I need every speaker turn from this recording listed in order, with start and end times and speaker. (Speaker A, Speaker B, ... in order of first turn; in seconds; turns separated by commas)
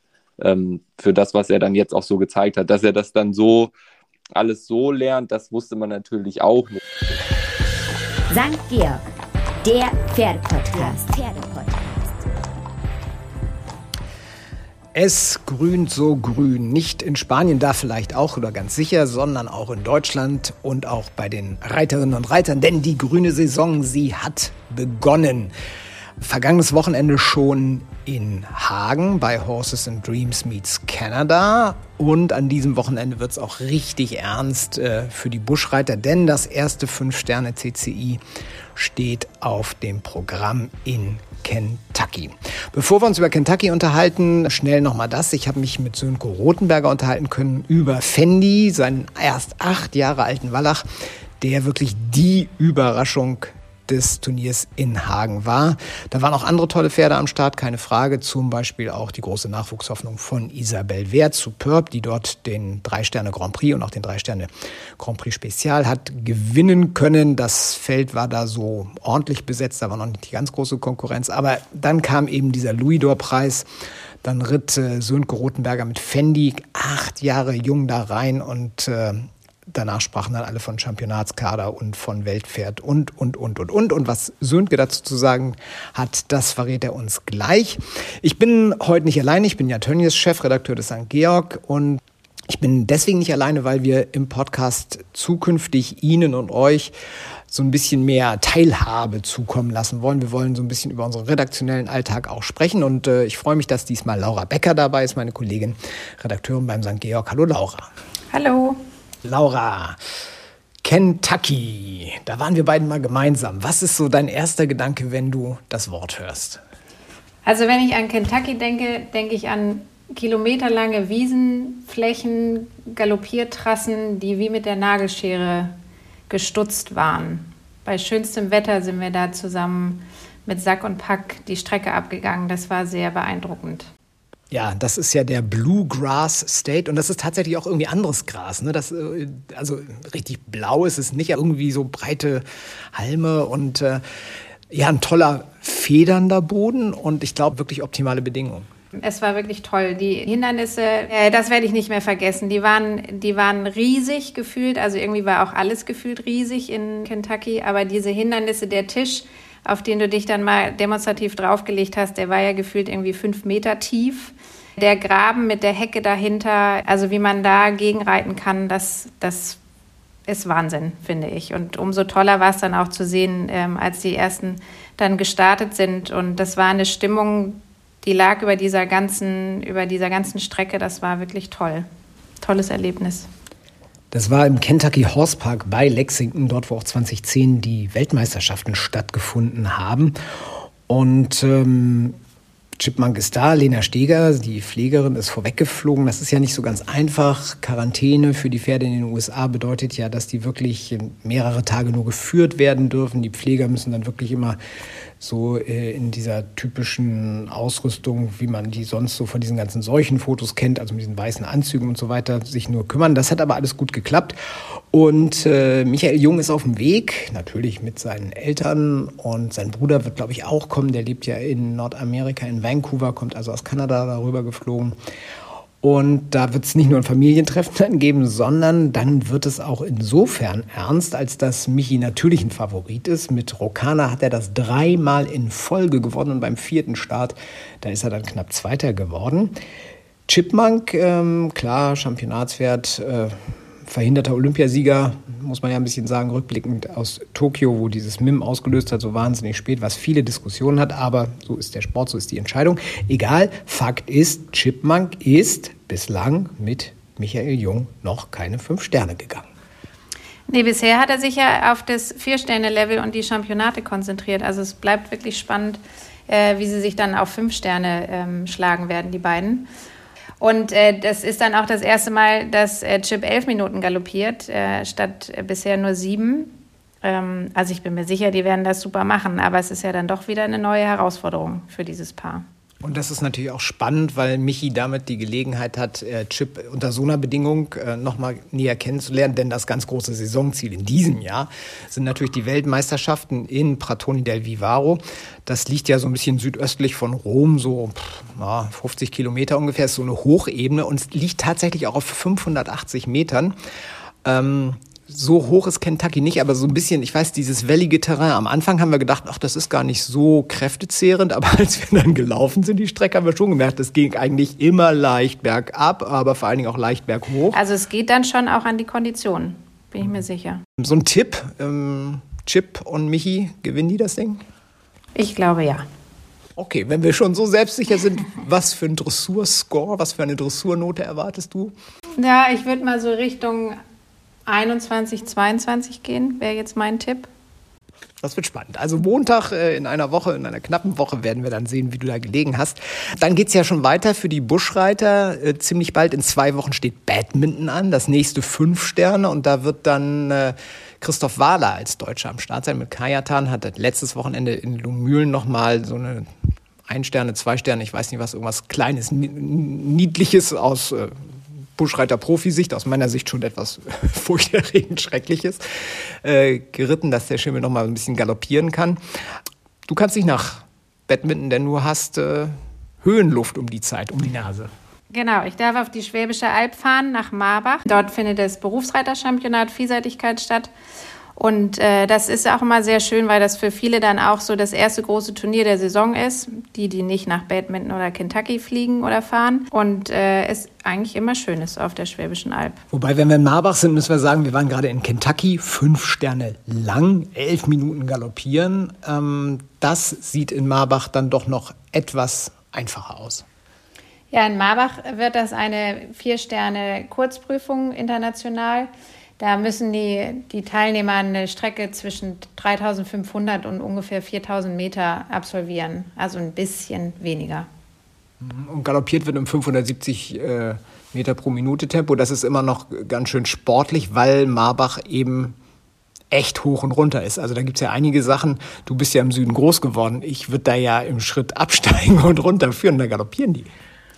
Speaker A: 0.4-3.7, Speaker A: 4.3-6.8, Speaker B: 8.3-9.0, Speaker B: 9.6-12.3, Speaker C: 14.9-25.5, Speaker C: 26.2-38.2, Speaker C: 38.7-50.8, Speaker C: 51.4-73.7, Speaker C: 74.2-96.9, Speaker C: 97.5-107.9, Speaker D: 108.3-108.8, Speaker C: 109.2-110.0, Speaker C: 110.8-116.6, Speaker D: 117.4-125.7, Speaker D: 126.3-133.9, Speaker C: 134.5-144.0, Speaker C: 144.7-148.7, Speaker D: 149.0-169.6, Speaker D: 170.3-181.8, Speaker D: 182.4-183.3, Speaker C: 184.1-190.2, Speaker C: 190.9-192.2, Speaker C: 192.8-204.6, Speaker C: 205.2-214.4, Speaker C: 214.9-224.9, Speaker C: 225.8-239.6, Speaker C: 240.3-259.4, Speaker D: 260.5-269.7, Speaker D: 270.4-282.4, Speaker C: 282.8-303.5, Speaker C: 304.2-317.6, Speaker D: 317.5-320.6, Speaker C: 320.8-324.4, Speaker D: 325.1-325.9, Speaker C: 326.6-331.7, Speaker D: 332.2-333.8, Speaker D: 334.5-337.3, Speaker C: 338.2-356.3, Speaker C: 356.9-369.0, Speaker C: 369.9-374.7, Speaker D: 375.1-380.7, Speaker D: 381.4-392.8, Speaker C: 392.9-403.4, Speaker D: 404.3-417.7, Speaker C: 418.4-425.6, Speaker C: 426.3-433.7